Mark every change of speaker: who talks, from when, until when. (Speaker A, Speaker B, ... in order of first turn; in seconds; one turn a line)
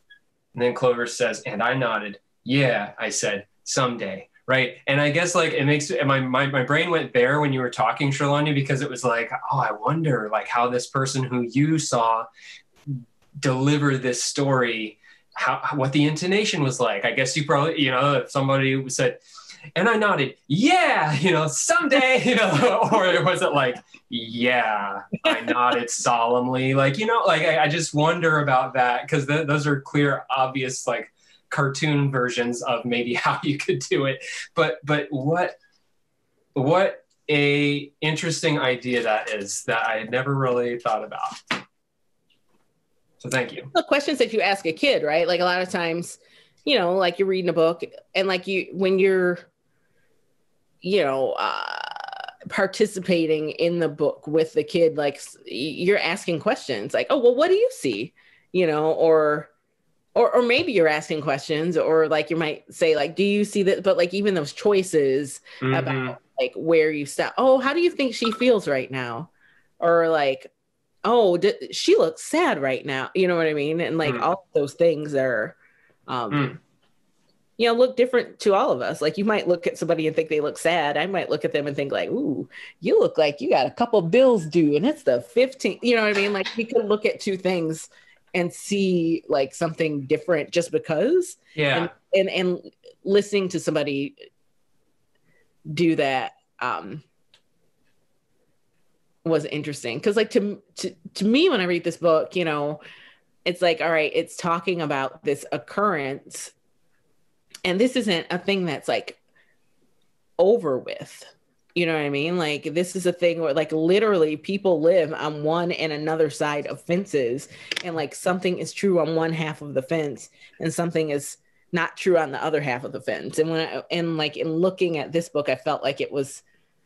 Speaker A: 0.5-12.2
Speaker A: 12.9-19.2
Speaker A: 19.8-35.5
Speaker A: 36.5-41.6
Speaker A: 43.2-43.7
Speaker B: 43.7-49.4
Speaker B: 50.8-59.5
Speaker B: 60.1-70.5
Speaker A: 65.6-66.2
Speaker B: 71.0-75.5
Speaker B: 76.1-76.5
Speaker A: 76.3-76.6
Speaker B: 77.6-94.2
Speaker A: 91.5-91.9
Speaker B: 95.7-97.0
Speaker B: 99.2-102.8
Speaker B: 103.4-106.5
Speaker B: 107.6-109.2
Speaker B: 110.4-126.4